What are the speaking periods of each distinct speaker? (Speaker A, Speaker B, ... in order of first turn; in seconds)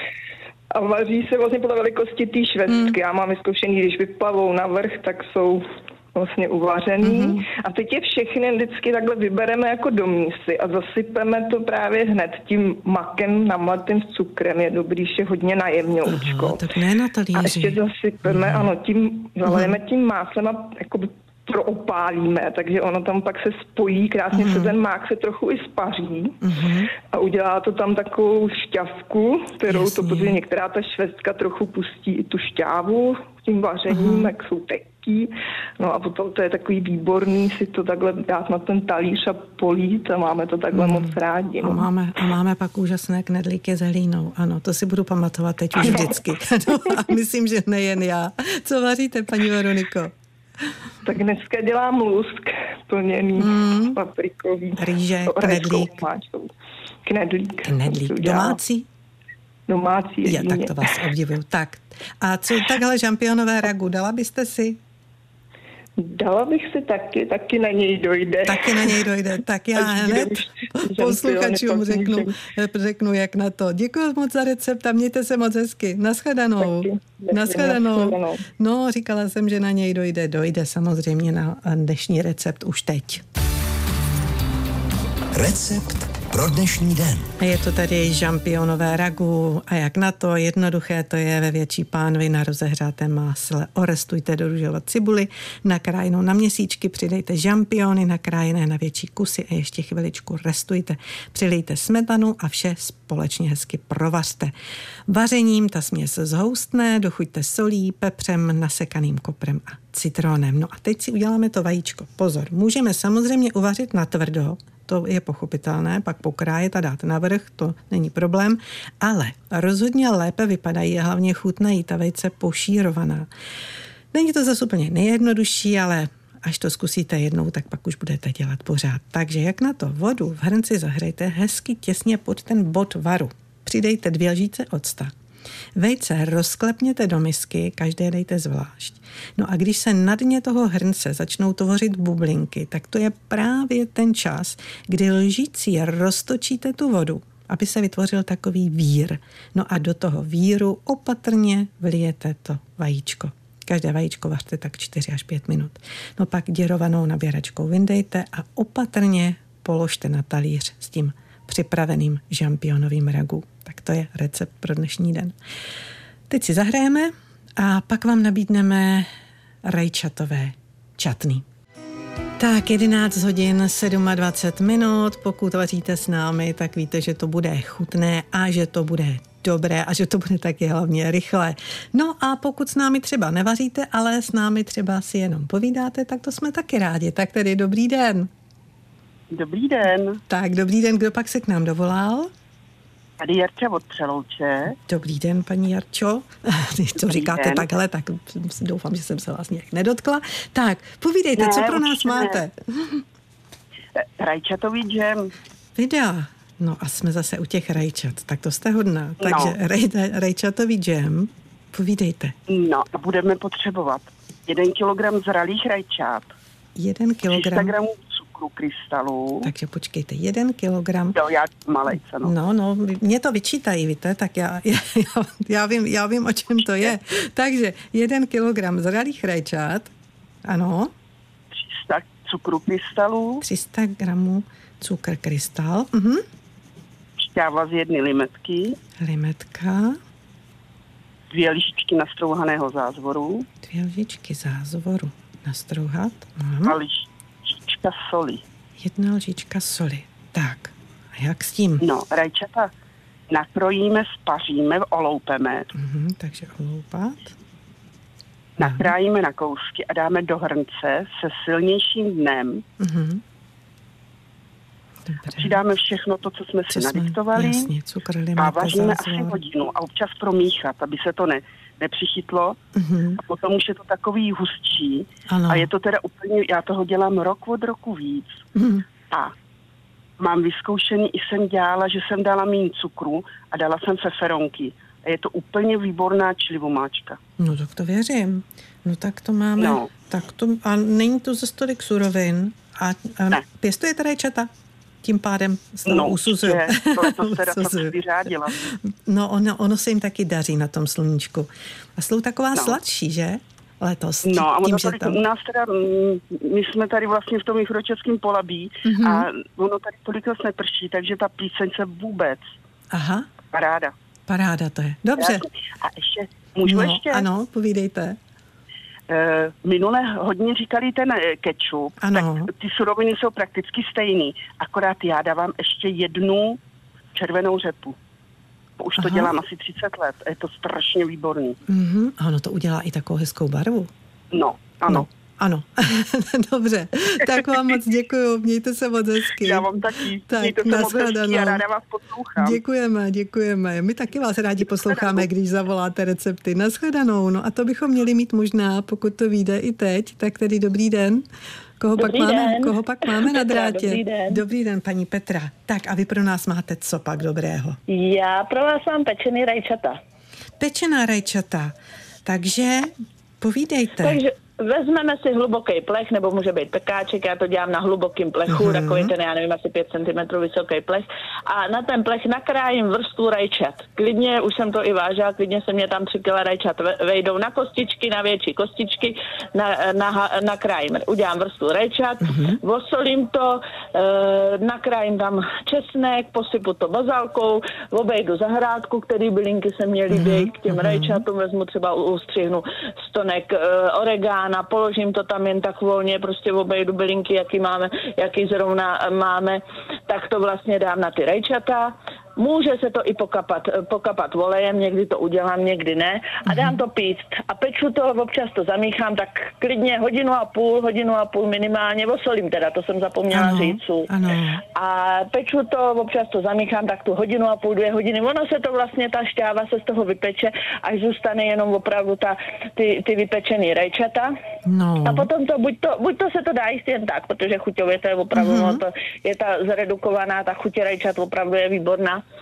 Speaker A: 0.7-16.7, 17.3-26.4, 27.0-41.9, 45.8-46.1, 51.0-56.5, 57.0-58.6, 59.7-61.0, 66.0-69.1, 69.7-72.4, 76.6-78.4
Speaker B: 2.7-3.0, 7.0-7.4, 16.0-18.7, 19.4-19.8, 24.3-24.8, 26.4-26.9, 29.7-30.4, 33.9-34.3, 40.7-50.1, 53.4-54.0, 54.8-56.0, 57.6-58.9, 60.2-64.8, 68.5-83.2, 87.4-104.5, 105.1-123.3, 124.1-135.1, 135.8-165.3, 166.3-169.1, 169.6-171.4, 172.4-188.3, 190.3-192.3, 194.9-203.0, 205.8-212.3, 216.8-217.7, 219.4-221.2, 222.2-229.9, 230.4-230.9, 233.4-236.2, 239.0-240.0, 243.6-246.8, 248.8-251.8, 255.7-257.3, 258.6-258.9, 262.8-263.2, 265.1-265.6, 266.7-269.4, 272.7-273.2, 275.3-275.7, 278.6-278.8, 287.4-294.5, 295.0-298.0, 298.6-305.2, 308.8-309.3, 312.9-313.3, 314.3-315.4, 316.6-318.2, 322.0-322.5, 328.9-329.3, 331.7-333.9, 334.9-341.6, 342.4-351.3, 351.8-357.8, 360.6-364.2, 368.5-369.1, 382.2-382.6, 390.1-391.2, 406.4-406.8, 413.3-414.6, 424.6-425.3, 428.3-428.8
Speaker C: 85.3-87.3
Speaker D: 189.3-190.2, 193.2-194.8, 197.0-197.6, 201.4-202.4, 203.9-205.3, 209.2-209.6, 212.5-216.3, 217.3-219.5, 221.1-222.3, 231.5-233.4, 237.2-238.8, 241.3-243.5, 246.6-248.4, 251.8-252.7, 253.3-255.7, 258.6-262.6, 265.4-267.7, 268.4-272.6, 273.2-278.4, 279.1-279.3, 280.2-287.2, 289.6-289.9, 295.9-298.6, 304.2-312.5, 313.5-313.9, 315.2-317.2, 319.1-326.6, 327.1-328.0, 328.8-331.6, 334.3-335.1, 339.4-342.6, 344.9-345.2
Speaker E: 352.0-354.4, 357.9-360.0, 364.0-414.1, 414.7-424.3, 425.0-432.2